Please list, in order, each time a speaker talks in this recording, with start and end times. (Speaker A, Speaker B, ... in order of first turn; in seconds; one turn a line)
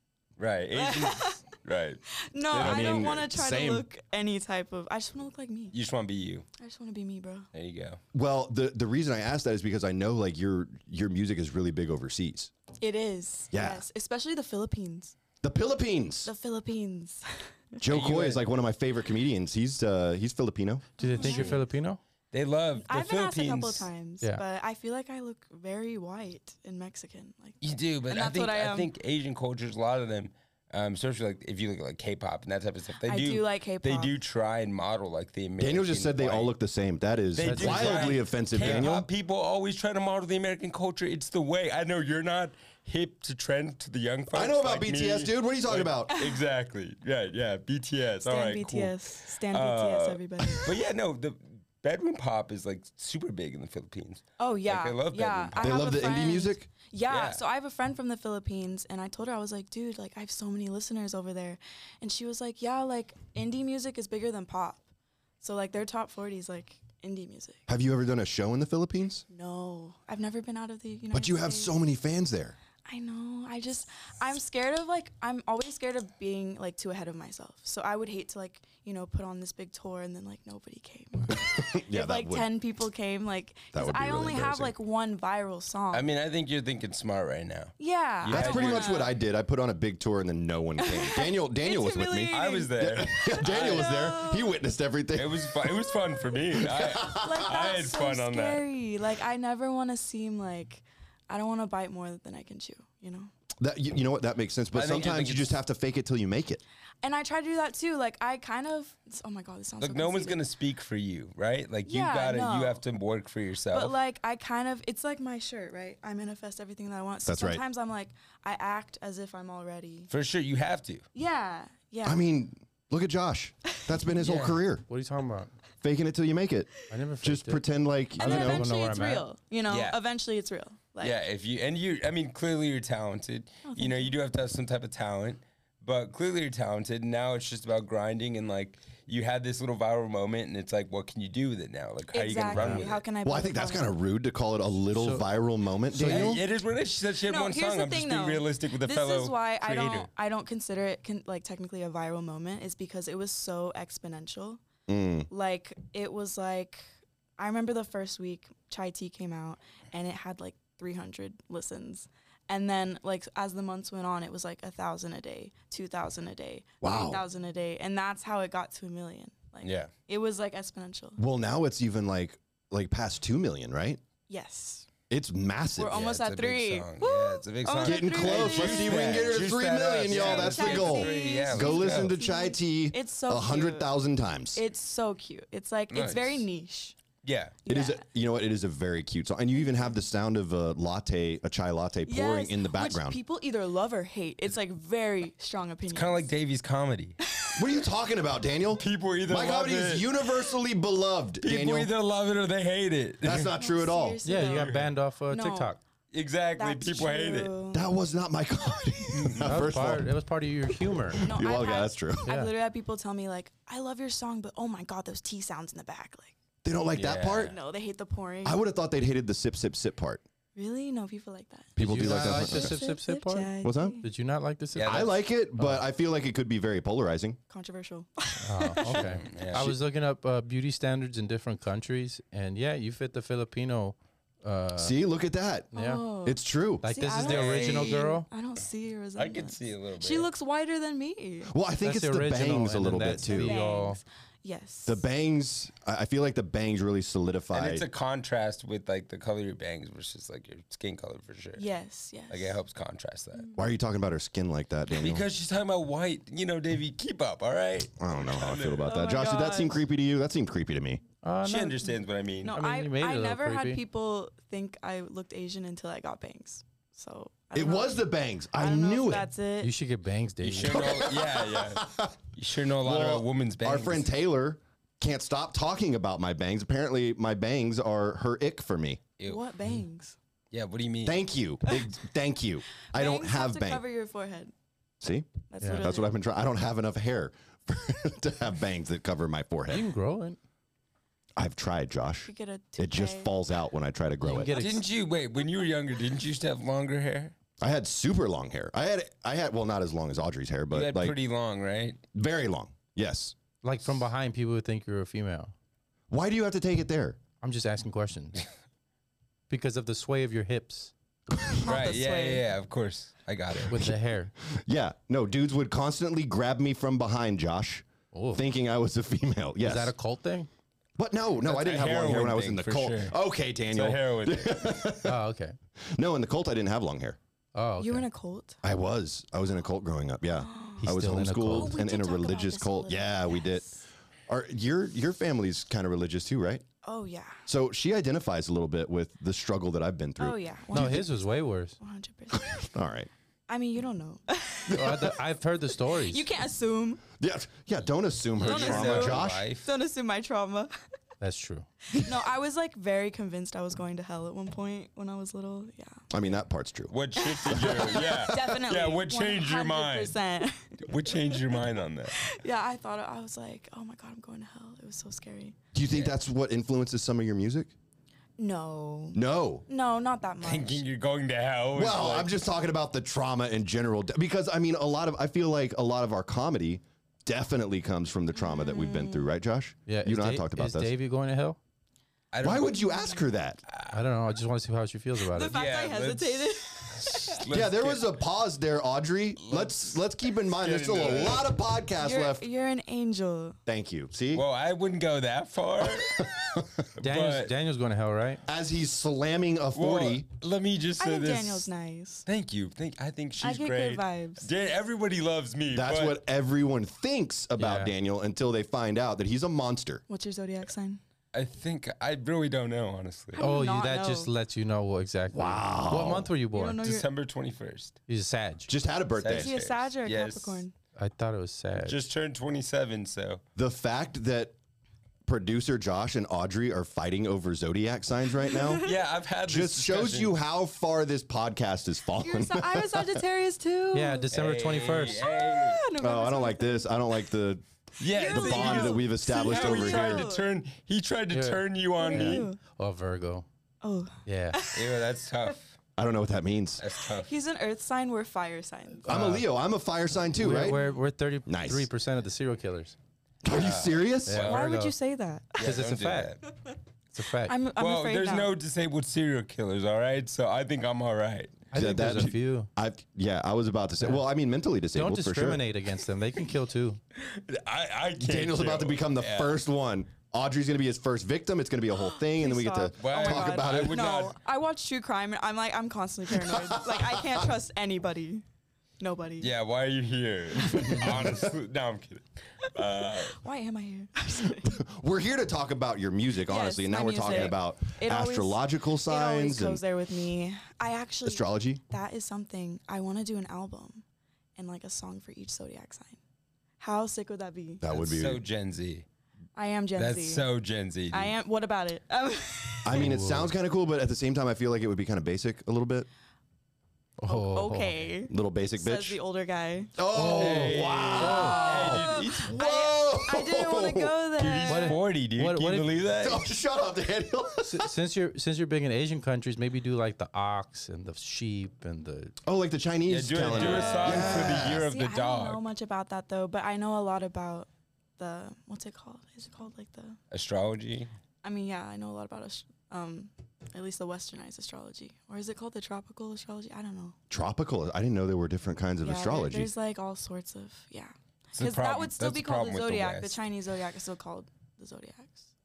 Speaker A: 0.4-3.2
Speaker B: 0.7-1.4
Speaker B: 2.3-5.8
Speaker C: 2.5-3.9
Speaker A: 5.7-6.5
Speaker B: 6.6-7.5
Speaker A: 7.5-8.0
Speaker C: 8.1-12.5
Speaker B: 12.8-15.2
Speaker C: 13.5-13.8
Speaker C: 15.4-16.3
Speaker B: 16.2-17.5
Speaker C: 17.8-21.5
Speaker A: 17.8-18.4
Speaker D: 21.0-22.0
Speaker B: 21.0-21.7
Speaker A: 22.3-23.9
Speaker B: 22.9-28.9
Speaker A: 27.6-36.5
Speaker B: 33.0-34.1
Speaker C: 35.6-39.1
Speaker A: 37.4-55.9
Speaker D: 37.4-38.9
Speaker C: 44.3-46.1
Speaker B: 46.1-46.4
Speaker B: 48.2-50.8
Speaker B: 54.4-64.8
Speaker C: 55.6-56.7
Speaker A: 57.1-57.4
Speaker B: 65.4-67.6
Speaker C: 67.7-69.3
Speaker B: 69.3-71.8
Speaker C: 71.1-72.6
Speaker B: 72.8-86.1
Speaker C: 81.3-82.5
Speaker C: 83.7-84.7
Speaker A: 85.9-89.0
Speaker B: 87.8-89.1
Speaker C: 88.3-95.7
Speaker B: 90.8-94.6
Speaker A: 92.3-94.0
Speaker A: 95.2-98.6
Speaker C: 96.5-97.7
Speaker B: 97.2-103.3
Speaker C: 103.6-106.6
Speaker A: 104.7-105.6
Speaker B: 107.0-110.4
Speaker A: 109.8-114.0
Speaker B: 111.9-112.8
Speaker B: 113.7-120.1
Speaker C: 117.2-117.6
Speaker A: 120.1-121.1
Speaker B: 121.2-122.2
Speaker C: 122.0-124.8
Speaker A: 124.2-124.6
Speaker D: 124.9-125.5
Speaker C: 125.8-128.7
Speaker D: 126.9-127.7
Speaker D: 128.2-129.3
Speaker B: 128.2-131.2
Speaker A: 129.7-130.0
Speaker A: 131.0-143.0
Speaker B: 133.7-134.2
Speaker B: 142.1-143.9
Speaker D: 142.5-142.8
Speaker C: 143.2-146.4
Speaker D: 144.9-145.3
Speaker D: 145.9-146.4
Speaker A: 146.0-150.1
Speaker B: 147.2-154.6
Speaker C: 154.9-155.3
Speaker B: 155.3-156.9
Speaker B: 157.4-171.2
Speaker C: 166.8-167.2
Speaker A: 169.6-169.9
Speaker C: 171.2-174.0
Speaker B: 174.3-174.9
Speaker C: 175.1-176.1
Speaker B: 175.8-179.5
Speaker A: 175.9-182.2
Speaker C: 177.8-184.6
Speaker B: 180.1-183.9
Speaker B: 184.5-187.0
Speaker A: 185.9-186.5
Speaker A: 187.2-187.6
Speaker B: 187.7-188.0
Speaker C: 187.7-193.2
Speaker B: 192.1-196.3
Speaker A: 195.9-197.2
Speaker B: 197.4-197.7
Speaker C: 197.6-201.9
Speaker A: 198.8-200.2
Speaker A: 201.4-203.6
Speaker C: 203.2-204.2
Speaker B: 203.5-204.8
Speaker D: 204.2-205.8
Speaker A: 204.4-204.9
Speaker B: 205.3-205.8
Speaker A: 206.1-207.5
Speaker B: 206.6-207.9
Speaker C: 207.7-210.1
Speaker A: 209.1-209.6
Speaker D: 209.4-211.2
Speaker C: 211.1-212.3
Speaker B: 211.2-216.3
Speaker D: 212.3-212.5
Speaker C: 216.6-217.6
Speaker A: 216.9-217.6
Speaker B: 217.5-218.6
Speaker C: 218.4-220.2
Speaker B: 220.6-224.1
Speaker C: 221.8-222.9
Speaker D: 221.8-225.8
Speaker C: 223.6-224.0
Speaker A: 224.8-225.1
Speaker C: 224.8-227.4
Speaker B: 227.5-229.4
Speaker D: 228.4-235.0
Speaker A: 228.8-229.8
Speaker C: 234.8-236.9
Speaker D: 235.7-236.0
Speaker B: 235.7-241.5
Speaker D: 236.8-238.3
Speaker A: 237.2-238.1
Speaker A: 239.2-240.3
Speaker C: 241.5-243.6
Speaker D: 241.8-244.0
Speaker B: 243.3-245.0
Speaker C: 244.8-247.9
Speaker A: 247.5-251.7
Speaker B: 251.6-252.6
Speaker A: 252.3-253.5
Speaker B: 253.3-253.7
Speaker C: 253.6-255.3
Speaker A: 254.9-258.9
Speaker C: 258.0-261.0
Speaker B: 258.9-259.8
Speaker D: 261.2-262.0
Speaker A: 261.4-262.6
Speaker B: 262.4-269.7
Speaker D: 262.5-263.8
Speaker C: 267.5-269.3
Speaker D: 269.6-270.9
Speaker A: 270.4-274.1
Speaker C: 270.6-272.1
Speaker C: 272.8-279.0
Speaker B: 279.2-280.2
Speaker A: 280.5-281.2
Speaker C: 281.1-283.8
Speaker B: 282.9-284.5
Speaker C: 285.0-289.9
Speaker B: 285.5-286.2
Speaker D: 285.6-285.9
Speaker D: 289.7-290.4
Speaker C: 291.4-294.5
Speaker B: 292.2-293.3
Speaker D: 294.2-294.9
Speaker A: 294.5-297.3
Speaker C: 297.6-301.1
Speaker A: 300.7-302.0
Speaker C: 302.1-303.4
Speaker D: 303.6-305.5
Speaker C: 306.1-307.2
Speaker D: 307.4-308.4
Speaker D: 309.5-310.9
Speaker B: 311.6-312.4
Speaker A: 311.6-313.8
Speaker D: 313.7-314.3
Speaker C: 313.7-319.9
Speaker D: 318.1-318.4
Speaker D: 319.6-320.5
Speaker C: 321.0-325.2
Speaker A: 321.4-323.2
Speaker A: 323.7-324.8
Speaker D: 325.0-325.6
Speaker C: 325.9-327.2
Speaker D: 327.6-328.1
Speaker B: 327.8-328.6
Speaker C: 328.6-333.7
Speaker B: 330.3-333.7
Speaker D: 330.8-331.8
Speaker C: 334.3-336.6
Speaker B: 336.8-337.4
Speaker C: 337.5-341.1
Speaker B: 340.2-342.7
Speaker D: 340.7-341.8
Speaker C: 342.3-343.1
Speaker B: 343.5-345.1
Speaker D: 344.7-346.2
Speaker B: 346.0-347.0
Speaker C: 347.2-349.5
Speaker A: 348.4-349.7
Speaker B: 348.4-350.7
Speaker D: 351.2-351.7
Speaker B: 351.9-356.1
Speaker C: 356.1-356.9
Speaker A: 356.9-360.2
Speaker B: 357.2-361.6
Speaker C: 357.5-358.5
Speaker A: 360.9-362.2
Speaker B: 362.1-365.6
Speaker C: 365.7-367.7
Speaker A: 365.9-366.2
Speaker B: 368.4-370.8
Speaker C: 369.1-369.7
Speaker A: 370.4-372.3
Speaker C: 371.8-380.9
Speaker B: 378.3-379.3
Speaker D: 379.9-381.6
Speaker A: 382.3-382.9
Speaker C: 382.4-383.6
Speaker B: 382.8-383.2
Speaker A: 383.7-384.0
Speaker D: 383.9-385.6
Speaker B: 385.3-387.4
Speaker A: 385.5-388.2
Speaker C: 387.5-392.5
Speaker A: 389.4-391.5
Speaker B: 392.0-393.6
Speaker C: 393.7-394.4
Speaker A: 394.3-396.3
Speaker C: 395.8-396.9
Speaker A: 397.0-397.5
Speaker D: 397.0-398.4
Speaker C: 398.4-400.2
Speaker A: 399.8-401.7
Speaker B: 401.0-402.2
Speaker A: 402.3-406.2
Speaker B: 403.4-404.5
Speaker C: 405.7-410.0
Speaker D: 407.6-407.9
Speaker B: 410.1-411.0
Speaker A: 411.3-413.4
Speaker B: 413.3-414.3
Speaker D: 413.4-416.8
Speaker C: 415.3-416.3
Speaker B: 416.5-417.1
Speaker A: 416.8-418.0
Speaker D: 418.1-418.7
Speaker C: 418.7-419.5
Speaker A: 419.2-420.6
Speaker B: 419.3-420.7
Speaker D: 420.9-422.0
Speaker A: 421.8-423.4
Speaker C: 423.6-424.6
Speaker C: 425.3-428.9
Speaker B: 428.5-428.9
Speaker A: 428.8-430.3
Speaker C: 429.4-433.2
Speaker B: 432.2-434.3
Speaker D: 433.9-435.3
Speaker A: 434.3-435.9
Speaker B: 435.2-436.9
Speaker C: 436.0-437.6
Speaker A: 438.0-442.5
Speaker B: 438.0-440.4
Speaker C: 438.2-440.3
Speaker D: 441.3-443.5
Speaker B: 442.0-442.6
Speaker B: 443.8-445.1
Speaker D: 444.3-444.6
Speaker A: 444.7-445.8
Speaker C: 446.0-446.8
Speaker A: 446.8-447.3
Speaker B: 447.1-449.1
Speaker C: 449.1-450.8
Speaker D: 449.1-449.5
Speaker D: 450.4-452.9
Speaker C: 451.5-451.9
Speaker C: 453.4-454.5
Speaker A: 453.5-454.6
Speaker D: 454.3-454.9
Speaker B: 454.4-455.6
Speaker A: 455.6-456.4
Speaker D: 455.6-456.4
Speaker D: 457.1-457.6
Speaker B: 457.4-458.5
Speaker A: 457.8-461.7
Speaker D: 461.7-462.7
Speaker C: 461.7-465.6
Speaker D: 464.9-467.0
Speaker A: 467.2-469.6
Speaker C: 468.2-474.2
Speaker B: 472.1-478.4
Speaker A: 473.0-474.4
Speaker C: 476.3-477.5
Speaker B: 479.0-479.5
Speaker A: 479.4-483.4
Speaker C: 481.0-481.3
Speaker B: 483.1-484.8
Speaker C: 484.5-489.8
Speaker B: 486.5-494.0
Speaker C: 491.2-491.8
Speaker B: 494.6-496.2
Speaker B: 496.8-497.8
Speaker C: 497.8-498.4
Speaker A: 497.9-499.1
Speaker B: 499.6-500.4
Speaker A: 500.0-501.4
Speaker B: 501.1-503.2
Speaker C: 502.8-506.1
Speaker D: 502.9-503.5
Speaker D: 507.2-507.9
Speaker B: 507.3-510.0
Speaker C: 508.3-509.2
Speaker C: 510.0-514.2
Speaker D: 510.1-511.6
Speaker A: 510.2-512.6
Speaker B: 511.6-515.0
Speaker A: 514.4-516.4
Speaker D: 514.7-515.9
Speaker C: 516.2-517.9
Speaker D: 517.6-522.4
Speaker C: 522.4-524.9
Speaker A: 523.1-525.6
Speaker B: 523.5-530.2
Speaker A: 530.3-531.1
Speaker B: 531.4-537.2
Speaker C: 537.3-539.7
Speaker B: 539.0-545.5
Speaker A: 541.5-543.4